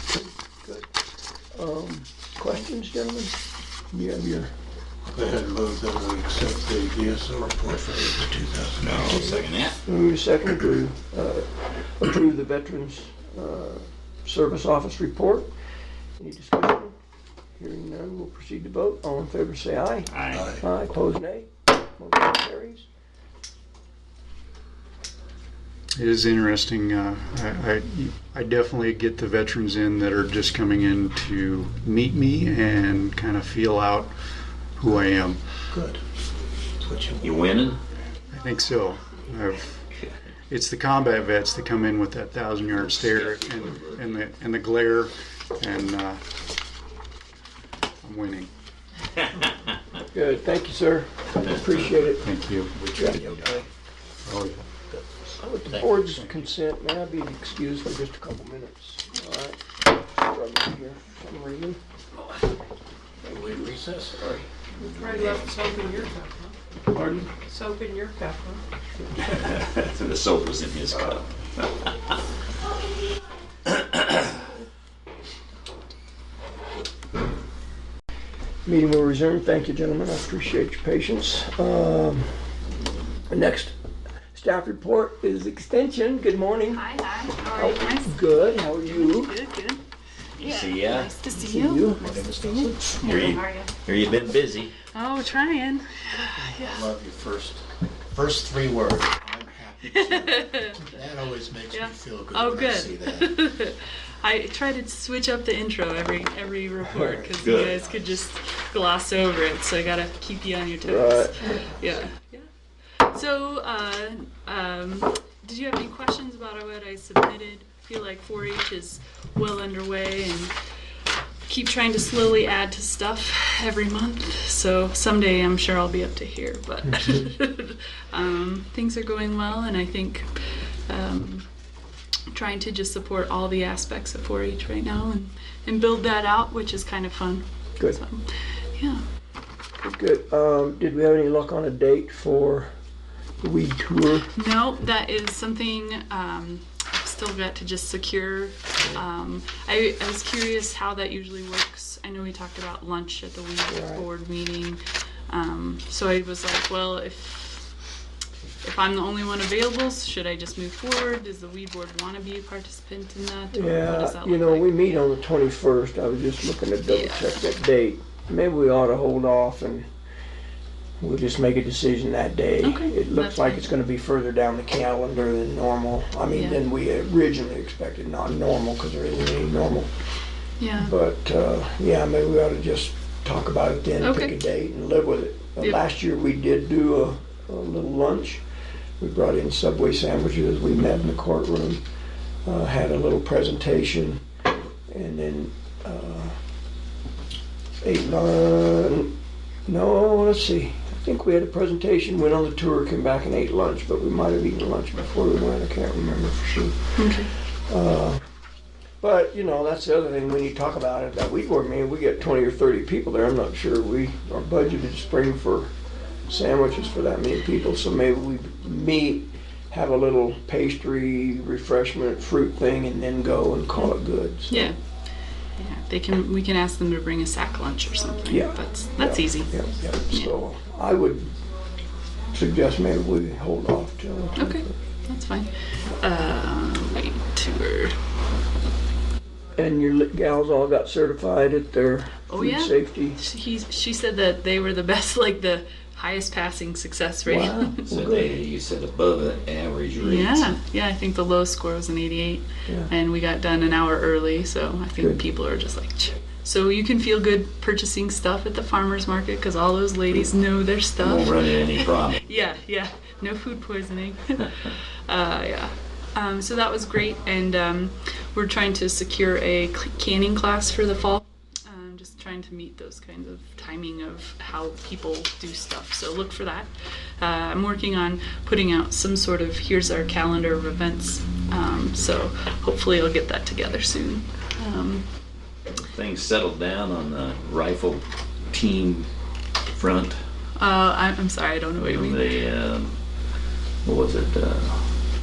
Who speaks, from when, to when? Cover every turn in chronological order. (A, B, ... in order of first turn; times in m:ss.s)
0:00.1-0:00.9 A
0:01.6-0:03.4 A
0:03.9-0:04.5 A
0:05.1-0:09.3 B
0:08.8-0:09.8 C
0:09.8-0:15.5 A
0:16.2-0:17.0 A
0:17.6-0:22.8 A
0:20.1-0:20.5 C
0:20.3-0:20.6 B
0:26.0-0:34.2 D
0:34.8-0:35.4 D
0:35.7-0:36.0 B
0:36.8-0:37.4 B
0:37.2-0:37.8 C
0:38.3-0:39.9 D
0:40.5-0:46.2 D
0:43.2-0:43.9 C
0:48.0-0:48.5 D
0:50.0-0:52.3 A
0:52.2-0:53.6 D
0:52.9-0:53.7 B
0:53.0-0:53.2 A
0:54.3-0:54.6 D
0:55.4-1:01.8 A
0:55.7-0:56.0 B
0:56.1-0:56.3 D
1:03.2-1:04.3 B
1:03.2-1:04.4 A
1:04.8-1:06.5 E
1:05.1-1:05.4 C
1:06.9-1:07.3 A
1:07.4-1:08.6 E
1:09.2-1:11.9 C
1:13.8-1:14.0 C
1:18.6-1:22.3 A
1:23.3-1:23.8 A
1:24.3-1:26.8 A
1:26.7-1:29.8 F
1:27.5-1:29.4 A
1:30.4-1:31.1 C
1:30.4-1:33.7 F
1:31.3-1:32.2 A
1:32.0-1:33.4 B
1:33.0-1:34.7 C
1:34.9-1:36.9 F
1:36.2-1:37.6 B
1:38.1-1:43.4 B
1:39.9-1:40.8 F
1:41.7-1:52.5 F
1:46.8-1:47.3 A
1:47.4-1:47.9 C
1:50.8-1:51.4 A
1:53.0-2:00.6 F
2:01.5-2:11.5 F
2:12.3-2:19.0 F
2:19.8-2:22.7 A
2:23.4-2:24.3 A
2:24.3-2:37.7 F
2:33.7-2:34.0 A
2:38.6-2:44.7 F
2:43.5-2:49.9 A
2:46.9-2:47.4 F
2:51.0-2:59.9 A
2:52.6-2:53.7 F
2:56.3-2:56.6 F
3:00.6-3:00.9 F
3:00.8-3:08.4 A
3:04.0-3:04.4 F
3:09.0-3:11.8 A
3:12.4-3:14.2 A
3:14.9-3:16.4 A
3:17.8-3:19.1 A
3:19.7-3:27.0 A
3:27.0-3:27.3 F
3:27.7-3:28.2 A
3:29.0-3:35.7 A
3:36.3-3:44.7 A
3:44.5-3:44.8 F
3:45.6-3:49.5 F
3:48.3-3:51.3 A
3:52.3-3:54.7 A
3:54.4-3:58.0 F
3:59.6-4:03.2 A
4:02.3-4:07.8 F
4:07.2-4:08.4 A
4:07.8-4:10.6 C
4:10.0-4:45.0 F
4:21.0-4:22.2 C
4:45.9-4:49.1 C
4:49.7-4:50.2 C
4:50.6-4:52.3 F
4:51.8-4:53.0 C
4:53.8-4:54.8 C